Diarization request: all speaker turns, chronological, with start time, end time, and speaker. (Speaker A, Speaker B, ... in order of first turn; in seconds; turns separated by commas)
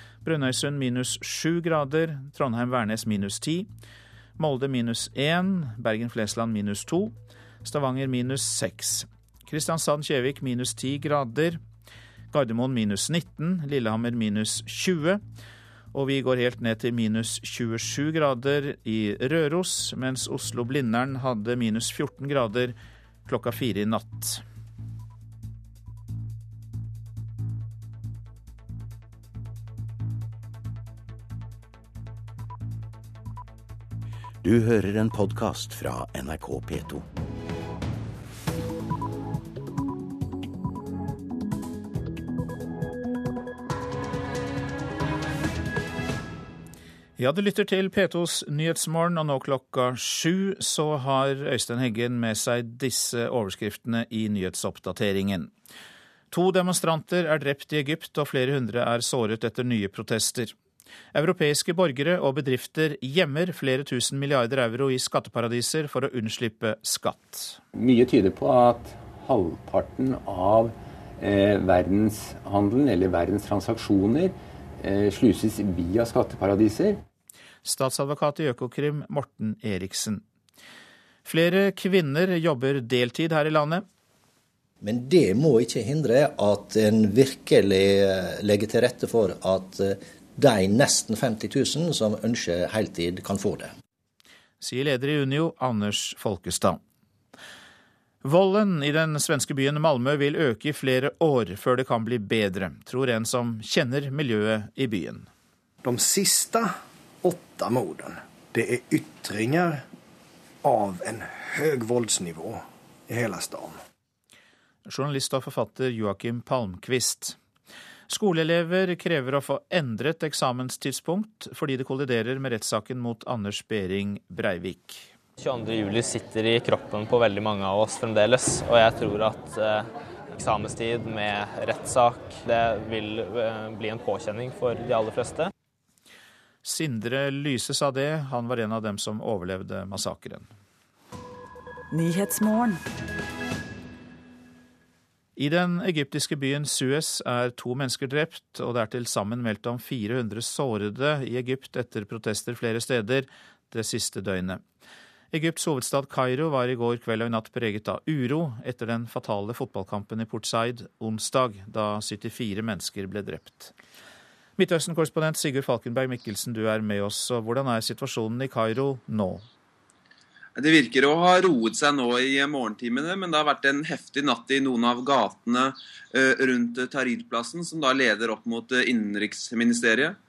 Speaker A: 0.2-3.7, Speaker A: 4.4-11.6, Speaker A: 12.3-15.2, Speaker A: 15.9-22.8, Speaker A: 23.3-24.4, Speaker B: 34.4-37.0, Speaker A: 47.2-55.5, Speaker A: 56.3-60.5, Speaker A: 61.1-67.6, Speaker C: 67.8-77.0, Speaker A: 77.7-80.2, Speaker A: 81.2-83.8, Speaker D: 84.8-93.7, Speaker A: 94.6-96.8, Speaker A: 98.2-105.3, Speaker E: 105.8-109.8, Speaker E: 110.6-113.8, Speaker A: 114.9-117.4, Speaker A: 118.1-125.1, Speaker F: 125.4-135.5, Speaker A: 136.6-140.5, Speaker A: 145.4-154.6, Speaker A: 155.3-163.7, Speaker A: 164.6-169.5, Speaker G: 170.6-180.2